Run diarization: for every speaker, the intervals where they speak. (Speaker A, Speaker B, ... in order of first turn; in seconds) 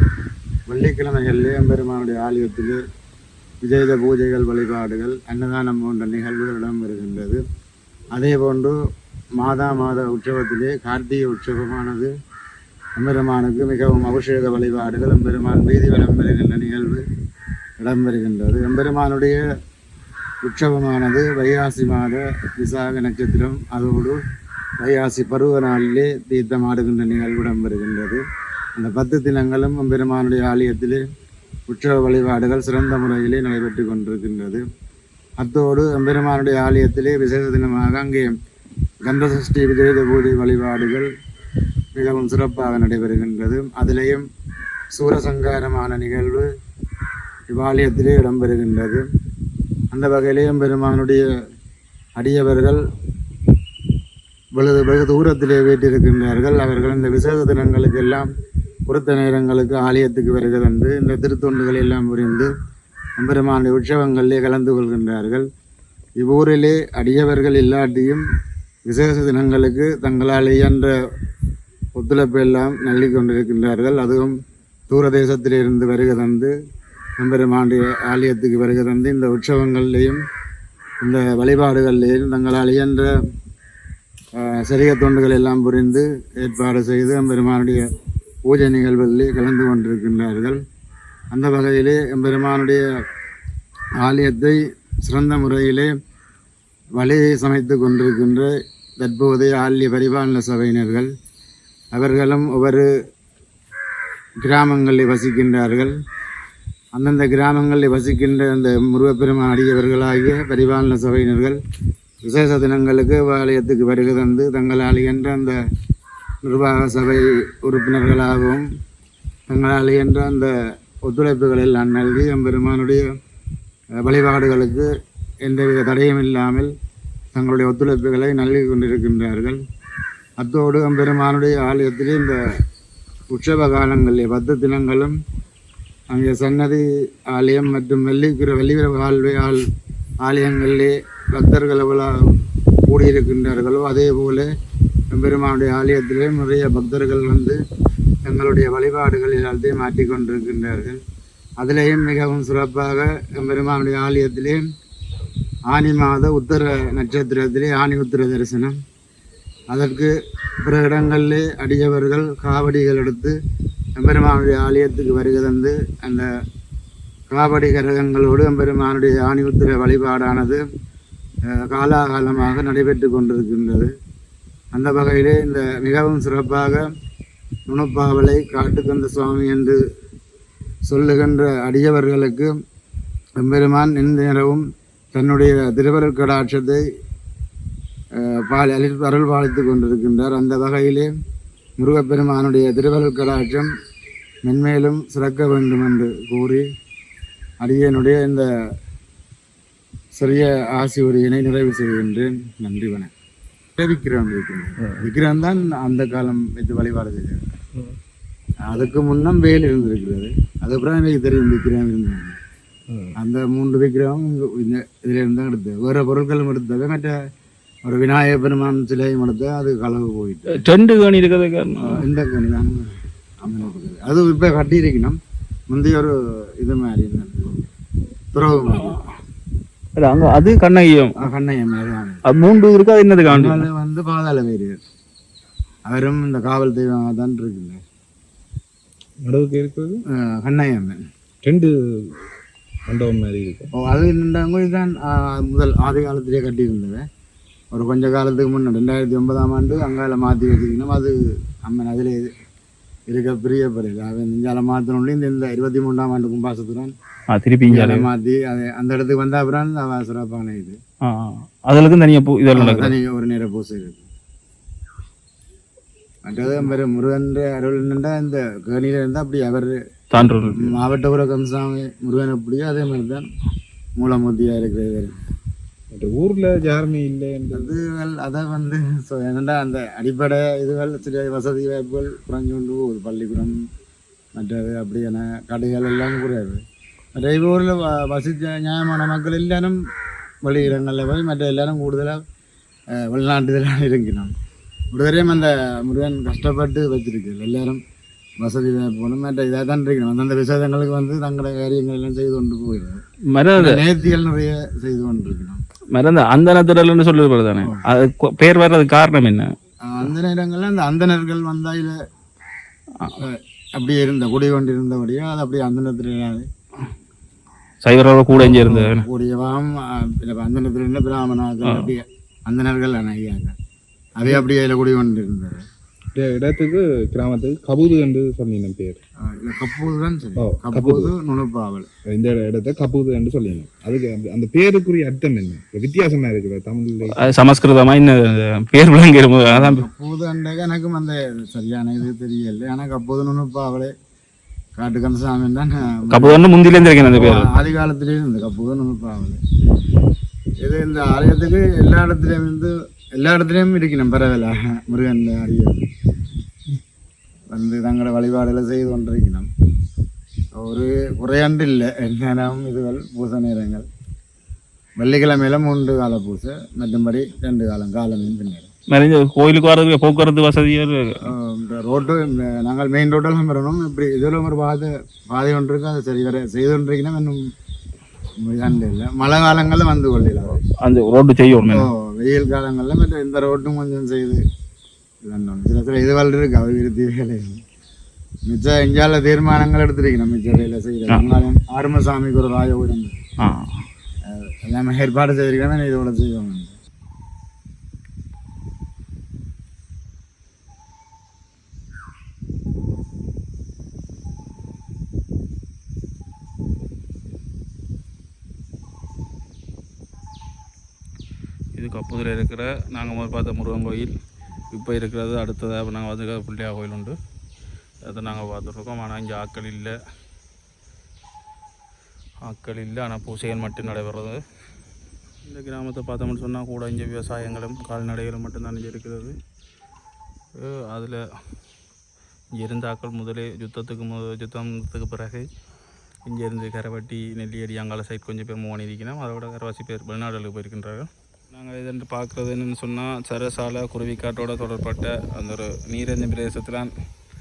Speaker A: 0.7-2.8, 3.6-7.4, 8.2-8.8, 9.4-12.1, 13.0-17.1, 17.8-19.4, 20.4-24.2, 24.8-28.2, 28.8-31.0, 31.7-34.6, 35.4-38.3, 39.0-41.1, 41.9-44.3, 44.9-46.5, 47.5-49.1, 49.9-51.3, 52.2-52.8, 54.6-58.3, 58.9-62.5, 63.2-65.5, 66.2-68.3, 68.9-71.0, 72.0-74.3, 74.9-76.5, 77.2-80.2, 81.0-83.1, 84.4-87.9, 88.5-90.6, 91.3-92.8, 94.0-95.9, 97.0-101.1, 101.9-102.9, 104.4-105.9, 107.0-111.6, 112.2-115.6, 116.4-118.7, 119.5-120.5, 121.0-123.1, 124.0-124.9, 125.4-126.7, 127.3-129.6, 130.4-132.4, 133.3-135.2, 136.1-139.7, 140.2-142.2, 142.9-144.5, 145.1-147.6, 148.2-151.0, 151.6-154.6, 155.7-158.8, 159.7-163.4, 164.0-166.3, 167.3-170.6, 171.5-173.9, 174.7-176.8, 177.7-179.8, 180.9-182.5, 183.4-186.8, 188.2-191.1, 191.8-193.7, 194.4-196.7, 197.6-198.5, 200.2-203.1, 203.8-207.5, 208.7-212.4, 213.2-217.1, 217.9-220.6, 221.8-222.9, 223.4-225.2, 225.7-227.6, 228.3-229.0, 231.2-232.2, 233.3-234.8, 235.9-237.8, 240.1-241.0, 243.8-247.1, 247.7-251.2, 251.7-252.3, 253.1-256.9, 257.7-260.8, 262.5-264.1, 266.2-273.3, 274.0-275.1, 277.5-283.6, 284.4-286.6, 287.2-289.8, 290.4-292.2, 293.0-294.3, 294.9-297.8, 298.4-303.0, 303.6-305.6, 309.9-312.0, 313.2-316.5, 318.3-323.5, 324.2-325.6, 329.2-331.9, 339.4-343.9, 344.8-346.4, 347.1-349.4, 350.6-355.9, 357.5-359.5, 360.6-363.9, 365.0-368.7, 371.2-377.4, 378.4-380.6, 381.7-384.4, 385.3-387.6, 388.5-393.2, 394.3-396.8
Speaker B: 212.9-213.1, 239.2-240.0, 241.4-242.2, 242.9-243.7, 275.9-277.7, 326.1-329.0, 330.4-331.1, 332.1-337.4
Speaker C: 220.5-222.0, 230.0-231.2, 232.2-233.7, 257.3-258.1, 261.0-262.9, 270.1-270.8, 303.3-303.8, 305.9-309.5, 317.8-319.0, 321.6-321.9, 337.1-339.9, 346.1-347.5, 368.9-371.3, 380.8-381.9, 393.4-393.9, 411.8-414.1, 414.7-417.2, 418.1-419.9, 422.4-424.4, 425.4-429.4, 430.6-431.2, 432.5-435.5, 436.3-446.9